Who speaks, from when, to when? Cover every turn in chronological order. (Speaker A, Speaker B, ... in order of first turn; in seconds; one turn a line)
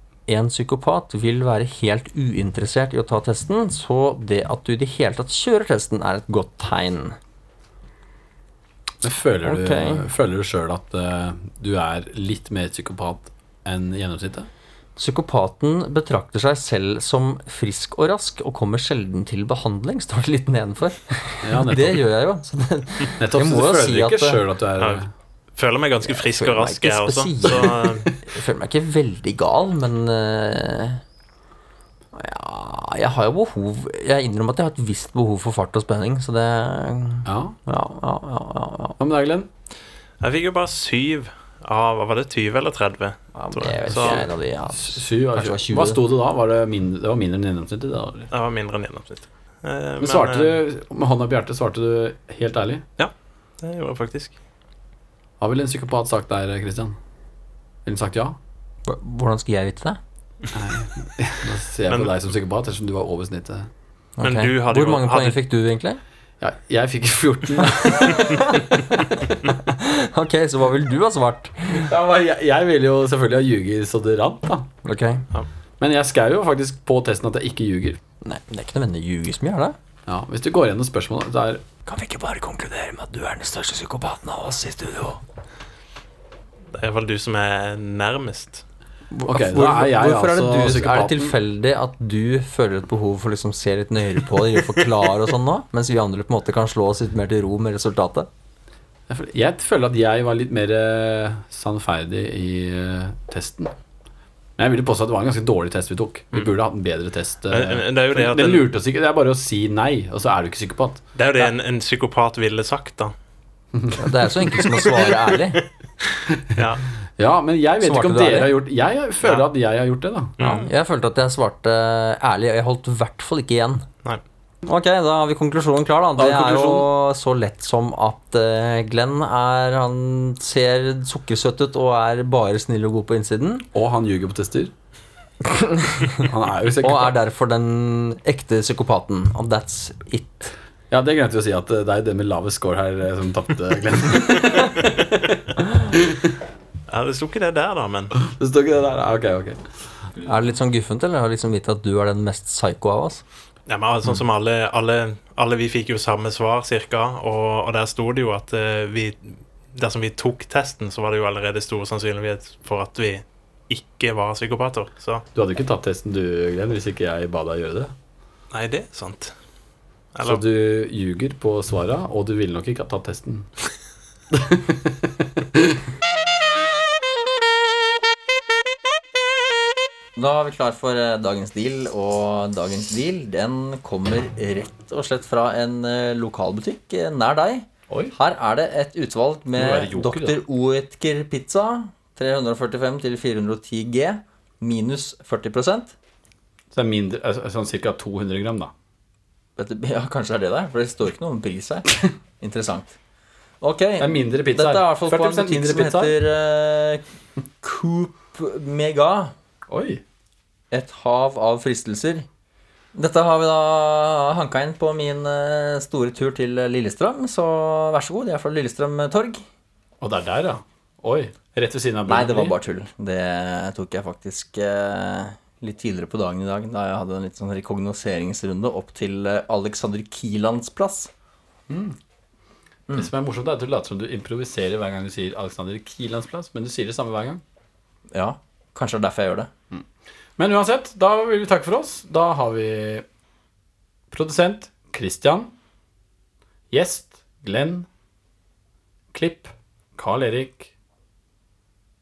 Speaker A: 0.3-7.2
Speaker B: 9.0-14.5
Speaker A: 9.4-10.1
Speaker A: 15.0-24.4
Speaker B: 21.4-22.1
Speaker B: 23.2-25.1
Speaker C: 25.6-28.1
Speaker A: 26.0-31.0
Speaker A: 32.1-39.0
Speaker B: 37.3-37.6
Speaker B: 39.0-39.5
Speaker C: 40.2-44.3
Speaker A: 43.4-46.0
Speaker B: 43.9-48.3
Speaker C: 48.3-50.6
Speaker B: 50.0-52.8
Speaker C: 53.0-54.4
Speaker B: 55.4-57.0
Speaker B: 57.9-58.4
Speaker A: 58.9-60.0
Speaker B: 60.5-63.7
Speaker A: 64.2-66.0
Speaker C: 64.2-65.4
Speaker B: 66.4-68.5
Speaker A: 68.0-68.7
Speaker A: 69.6-71.8
Speaker B: 71.7-74.7
Speaker A: 74.8-75.3
Speaker B: 75.8-78.0
Speaker A: 78.2-79.8
Speaker B: 80.1-81.6
Speaker A: 81.9-85.2
Speaker C: 86.7-88.6
Speaker A: 89.1-98.3
Speaker B: 89.3-91.3
Speaker B: 99.1-103.7
Speaker B: 104.6-111.0
Speaker C: 107.5-108.7
Speaker C: 111.2-113.1
Speaker A: 114.0-115.6
Speaker C: 116.5-116.8
Speaker B: 117.2-120.4
Speaker A: 117.8-118.5
Speaker C: 120.4-120.7
Speaker A: 120.4-123.8
Speaker A: 124.7-133.7
Speaker B: 126.2-126.9
Speaker B: 133.7-134.7
Speaker A: 135.4-136.1
Speaker B: 136.2-137.2
Speaker A: 136.8-140.5
Speaker B: 140.9-146.3
Speaker C: 146.9-148.1
Speaker B: 148.2-149.6
Speaker A: 150.2-153.2
Speaker C: 153.7-165.2
Speaker B: 165.3-167.9
Speaker C: 168.5-169.3
Speaker C: 170.2-170.4
Speaker B: 170.2-173.5
Speaker B: 174.3-175.7
Speaker A: 180.2-195.9
Speaker B: 187.9-188.2
Speaker B: 189.6-190.4
Speaker B: 196.7-198.7
Speaker A: 199.6-203.0
Speaker A: 203.6-207.0
Speaker B: 204.0-206.2
Speaker A: 207.6-209.3
Speaker B: 209.7-210.0
Speaker A: 210.7-212.3
Speaker A: 212.9-219.4
Speaker B: 220.0-222.6
Speaker A: 222.1-231.1
Speaker B: 231.7-232.0
Speaker B: 232.9-237.4
Speaker A: 238.1-239.5
Speaker B: 240.4-243.1
Speaker B: 244.1-245.5
Speaker B: 246.7-247.9
Speaker B: 249.1-250.7